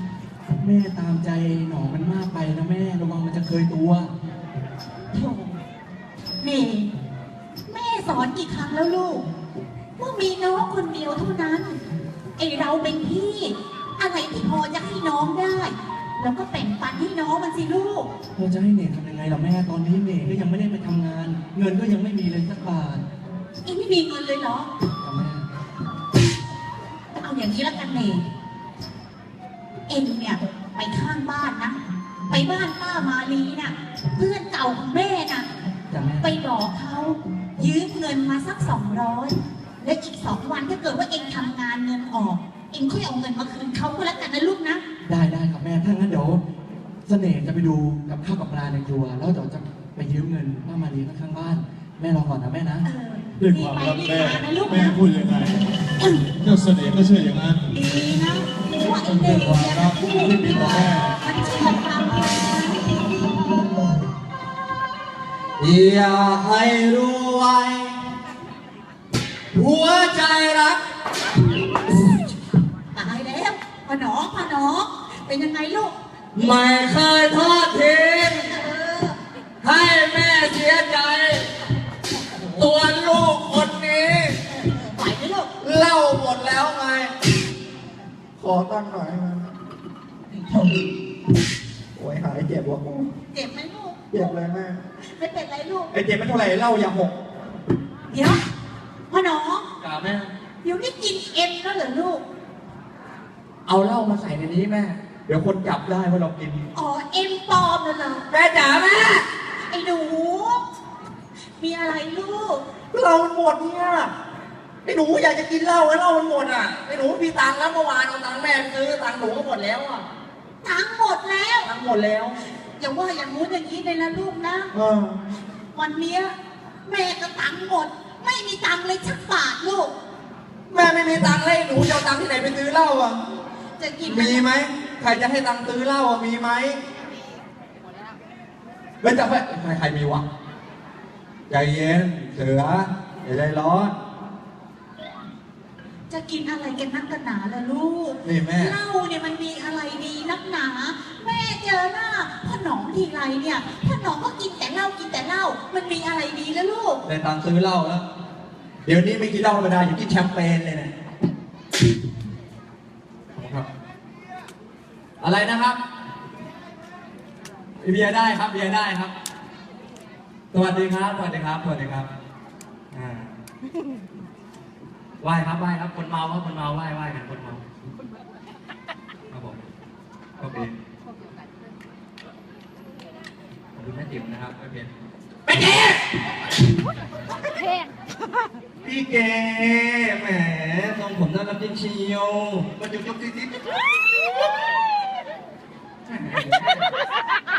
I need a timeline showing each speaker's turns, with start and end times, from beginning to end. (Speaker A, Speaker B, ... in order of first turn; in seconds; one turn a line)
Speaker A: 0.6-4.1
Speaker B: 5.1-5.6
Speaker B: 6.4-6.9
Speaker B: 7.7-9.3
Speaker B: 10.0-11.8
Speaker B: 12.4-18.1
Speaker A: 18.3-23.0
Speaker B: 23.6-24.7
Speaker A: 25.0-25.5
Speaker B: 27.2-28.2
Speaker B: 29.9-35.5
Speaker A: 35.9-36.3
Speaker B: 36.2-44.8
Speaker A: 45.0-46.4
Speaker A: 47.0-52.9
Speaker B: 52.8-55.0
Speaker C: 53.4-55.6
Speaker B: 56.0-56.3
Speaker C: 56.4-57.7
Speaker B: 57.7-63.5
Speaker C: 59.0-61.1
Speaker D: 65.6-68.0
Speaker D: 69.5-70.8
Speaker B: 72.9-75.9
Speaker D: 76.3-78.5
Speaker B: 78.5-79.2
Speaker D: 79.6-81.5
Speaker B: 82.1-82.7
Speaker D: 82.6-84.3
Speaker B: 84.5-85.5
Speaker D: 85.6-87.1
Speaker D: 88.4-89.5
Speaker B: 90.3-90.8
Speaker D: 91.9-93.1
Speaker B: 93.3-94.3
Speaker D: 94.1-94.8
Speaker B: 95.0-95.9
Speaker D: 95.9-97.2
Speaker B: 98.1-98.4
Speaker B: 99.1-99.7
Speaker D: 99.8-100.3
Speaker B: 100.6-102.2
Speaker D: 103.7-106.7
Speaker B: 106.7-108.3
Speaker D: 108.3-109.2
Speaker B: 109.7-110.6
Speaker B: 111.6-112.6
Speaker D: 112.9-114.1
Speaker D: 114.8-120.0
Speaker B: 120.6-121.7
Speaker D: 121.6-122.4
Speaker B: 122.8-124.7
Speaker D: 124.7-125.2
Speaker B: 125.7-126.3
Speaker B: 126.8-129.9
Speaker D: 130.7-133.2
Speaker B: 133.8-134.4
Speaker D: 134.0-136.8
Speaker D: 139.0-140.2
Speaker D: 141.5-143.9
Speaker B: 146.1-157.0
Speaker D: 148.2-148.7
Speaker D: 157.0-158.1
Speaker D: 158.8-160.9
Speaker D: 163.3-163.7
Speaker D: 165.2-165.8
Speaker D: 167.8-169.1
Speaker D: 170.5-172.1
Speaker D: 172.9-173.4
Speaker D: 175.2-177.6
Speaker D: 179.3-179.6
Speaker D: 180.4-180.8
Speaker D: 183.7-184.9
Speaker D: 185.5-186.0
Speaker D: 188.8-193.7
Speaker D: 196.1-196.8